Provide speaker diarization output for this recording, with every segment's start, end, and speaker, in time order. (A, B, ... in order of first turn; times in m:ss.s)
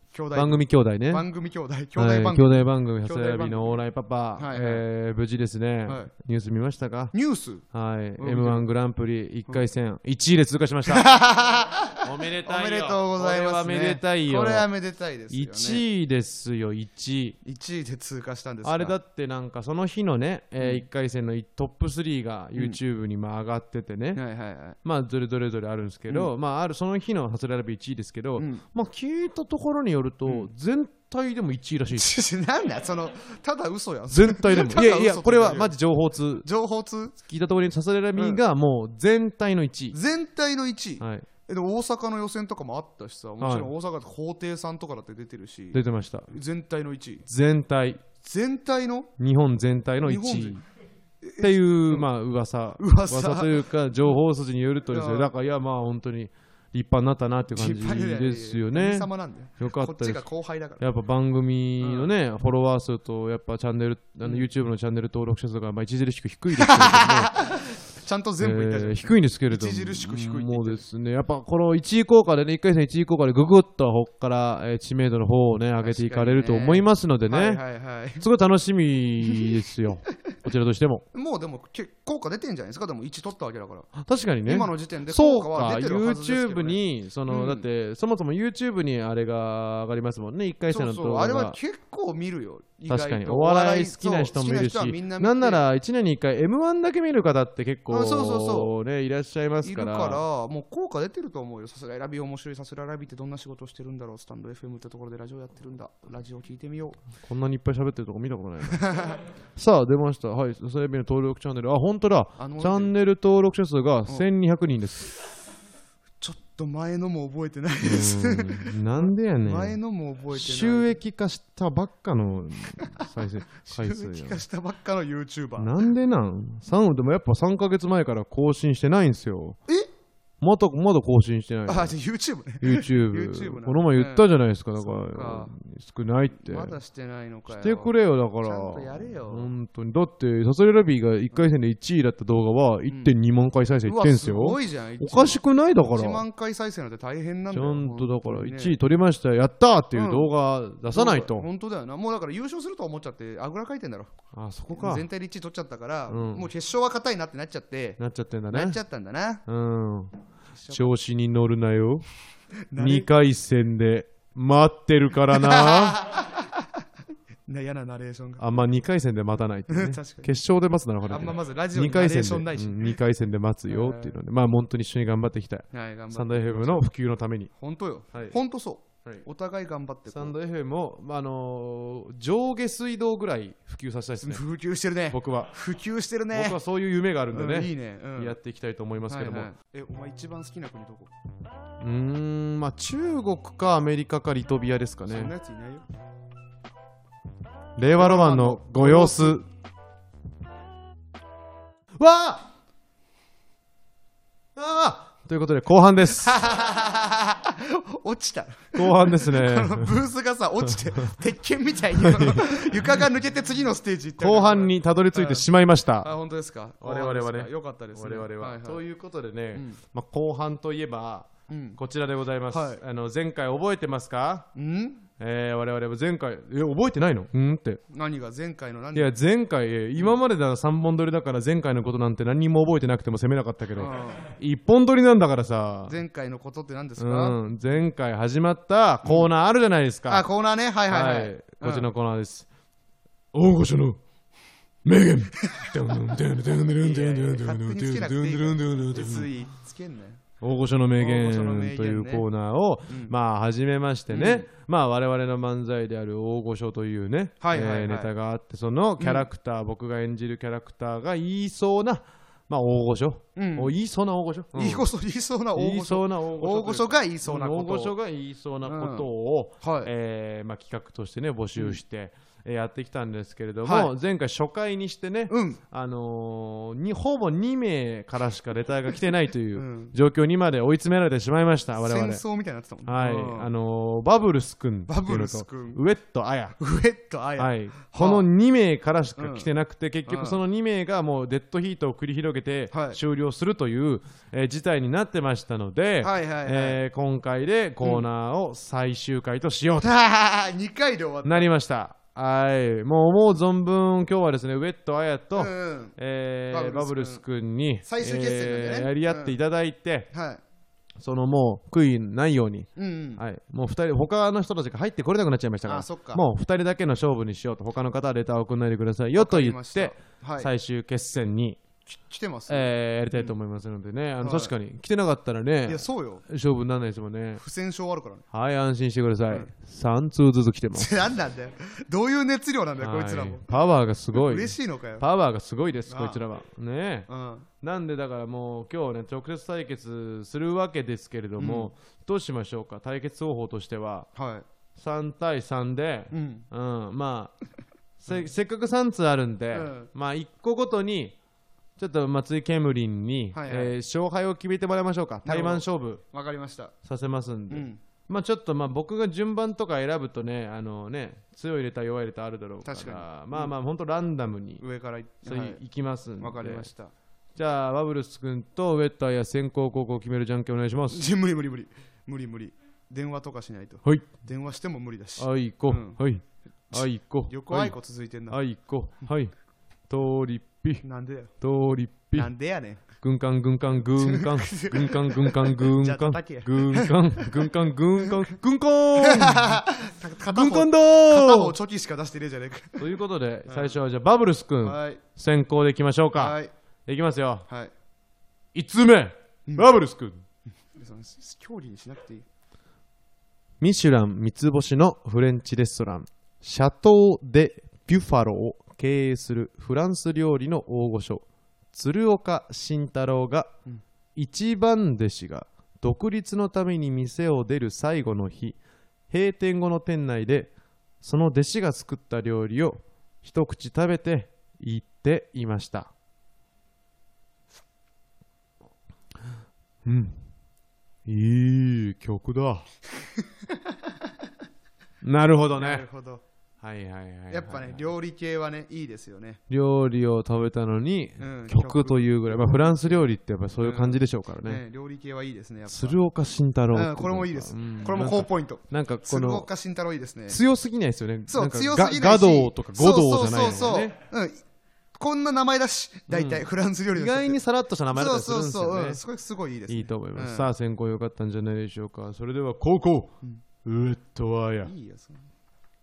0:00.1-0:03.8 A
0:00.3-0:01.2 B
0:02.0-0:07.1 B
0:04.4-0:04.8 A
0:07.1-0:07.6 A
0:07.7-0:11.1 B
0:08.2-0:08.7 A
0:10.9-0:15.8 A
0:12.0-0:14.7 B
0:15.3-0:17.4 B
0:17.4-0:19.0 A
0:18.6-0:24.2 B
0:20.6-0:20.8 A
0:24.2-0:24.8 A
0:24.8-0:32.2 B
0:28.4-0:28.6 A
0:32.0-0:35.8 A
0:34.1-0:36.5 B
0:36.4-0:37.2 A
0:37.3-0:40.0 B
0:38.2-0:38.4 A
0:39.9-0:47.2 A
0:41.0-0:41.3 B
0:43.4-0:43.7 B
0:45.7-0:46.3 B
0:47.3-0:48.0 B
0:48.2-0:49.1 A
0:49.2-0:50.6 B
0:50.0-0:50.6 A
0:51.2-0:52.1 A
0:51.4-0:59.1 B
0:52.8-0:53.7 A
0:54.9-0:55.3 A
0:57.5-1:00.8 A
0:59.6-1:00.2 B
1:00.8-1:07.4 B
1:01.8-1:02.1 A
1:06.6-1:10.8 A
1:08.4-1:17.6 B
1:15.8-1:18.2 A
1:18.2-1:21.0 B
1:21.1-1:23.9 A
1:24.0-1:31.6 B
1:24.4-1:27.7 A
1:30.7-1:35.6 A
1:32.9-1:40.2 B
1:37.9-1:38.7 A
1:39.6-1:47.0 A
1:47.2-1:48.9 B
1:48.7-1:49.2 A
1:49.6-1:55.1 B
1:52.4-1:52.9 A
1:56.2-2:01.0 A
1:57.8-1:59.8 B
2:00.3-2:04.4 B
2:03.6-2:05.7 A
2:05.6-2:09.6 B
2:10.4-2:11.9 B
2:11.7-2:15.5 A
2:12.6-2:16.8 B
2:16.4-2:19.5 A
2:17.5-2:26.2 B
2:22.9-2:23.2 A
2:23.8-2:28.8 A
2:27.5-2:31.5 B
2:29.9-2:30.3 A
2:30.9-2:34.1 A
2:34.3-2:35.1 B
2:34.7-2:38.0 A
2:36.1-2:36.5 B
2:38.0-2:38.8 B
2:38.5-2:39.4 A
2:39.5-2:40.1 B
2:40.5-2:40.9 A
2:40.7-2:42.1 B
2:42.7-2:43.1 A
2:42.8-2:46.0 B
2:45.3-2:46.7 A
2:47.5-2:48.4 A
2:48.4-2:57.5 B
2:49.7-2:50.3 A
2:51.1-2:53.0 A
2:53.7-2:54.2 A
2:55.7-2:56.9 A
2:57.6-3:00.4 A
3:00.1-3:04.4 B
3:04.2-3:06.6 A
3:05.1-3:05.5 B
3:06.3-3:09.5 B
3:07.3-3:08.4 A
3:09.1-3:11.1 A
3:11.8-3:15.3 B
3:15.1-3:15.8 A
3:17.8-3:19.5 B
3:18.0-3:19.4 A
3:22.0-3:22.4 B
3:24.6-3:26.4 B
3:26.2-3:35.5 A
3:28.8-3:30.0 B
3:32.0-3:32.9 B
3:34.2-3:36.1 B
3:36.0-3:38.8 A
3:36.8-3:44.5 B
3:39.5-3:39.8 A
3:41.5-3:41.8 A
3:42.5-3:42.8 A
3:44.6-3:45.0 A
3:45.2-3:47.8 B
3:47.9-3:49.2 A
3:48.9-3:56.0 B
3:53.8-3:54.3 A
3:55.9-3:57.4 A
3:57.0-4:00.3 B
3:59.0-3:59.3 A
4:00.1-4:01.9 A
4:00.9-4:02.5 B
4:03.3-4:04.0 B
4:04.8-4:09.3 B
4:05.4-4:05.7 A
4:06.4-4:10.2 A
4:10.4-4:24.9 B
4:11.0-4:12.2 A
4:12.9-4:13.1 A
4:14.1-4:14.5 A
4:17.4-4:18.1 A
4:19.0-4:19.3 A
4:23.4-4:23.8 A
4:24.6-4:28.0 A
4:25.6-4:42.2 B
4:28.6-4:29.1 A
4:29.6-4:29.9 A
4:33.6-4:33.9 A
4:35.3-4:35.6 A
4:39.6-4:39.9 A
4:41.8-4:43.5 A
4:42.8-4:46.6 B
4:44.9-4:45.8 A
4:46.6-4:48.3 A
4:47.4-4:59.9 B
4:49.2-4:49.5 A
4:50.1-4:50.4 A
4:52.7-4:53.0 A
4:56.0-4:56.8 A
4:59.8-5:01.5 A
5:01.2-5:10.1 B
5:05.4-5:06.0 A
5:06.5-5:07.2 A
5:07.8-5:09.4 A
5:10.1-5:10.4 A
5:11.0-5:21.6 B
5:12.8-5:13.2 A
5:15.6-5:16.2 A
5:19.2-5:20.5 A
5:21.9-5:23.3 A
5:22.5-5:27.4 B
5:24.2-5:24.5 A
5:25.7-5:26.2 A
5:27.4-5:28.2 A
5:28.3-5:31.0 B
5:30.7-5:33.5 A
5:32.8-5:37.1 B
5:34.1-5:35.0 A
5:35.9-5:36.2 A
5:37.1-5:37.5 A
5:37.6-5:44.1 B
5:41.4-5:41.7 A
5:44.2-5:44.4 A
5:44.8-5:47.3 B
5:46.1-5:46.5 A
5:48.0-5:51.2 B
5:49.5-5:49.9 A
5:51.8-5:56.0 B
5:53.3-5:53.7 A
5:55.2-5:56.7 A
5:56.8-6:04.6 B
5:57.5-5:57.8 A
6:02.6-6:03.5 A
6:04.6-6:05.6 A
6:05.2-6:06.7 B
6:06.2-6:06.9 A
6:07.4-6:11.1 B
6:10.9-6:16.0 A
6:13.8-6:14.1 B
6:15.2-6:17.8 B
6:16.7-6:18.4 A
6:18.3-6:19.3 B
6:19.9-6:20.8 B
6:20.8-6:21.3 A
6:21.4-6:22.3 B
6:22.1-6:22.8 A
6:23.0-6:29.6 B
6:24.0-6:28.3 A
6:29.0-6:32.8 A
6:30.3-6:31.6 B
6:32.8-6:37.5 B
6:33.5-6:33.8 A
6:34.6-6:35.0 A
6:36.2-6:36.5 A
6:38.5-6:40.2 B
6:40.7-6:42.2 A
6:43.6-6:53.5 B
6:54.2-6:58.6 B
6:59.1-7:05.9 B
7:09.8-7:10.2 B
7:11.1-7:12.6 B
7:15.0-7:15.8 B
7:15.6-7:16.2 A
7:16.6-7:17.9 B
7:17.3-7:19.4 A
7:19.5-7:24.6 B
7:21.2-7:23.0 A
7:23.6-7:26.0 A
7:25.7-7:29.5 B
7:26.7-7:30.4 A
7:30.3-7:33.9 B
7:31.3-7:34.4 A
7:35.0-7:37.4 A
7:36.1-7:39.0 B
7:37.9-7:40.5 A
7:39.7-7:43.1 B
7:43.6-7:44.7 B
7:44.6-7:45.3 A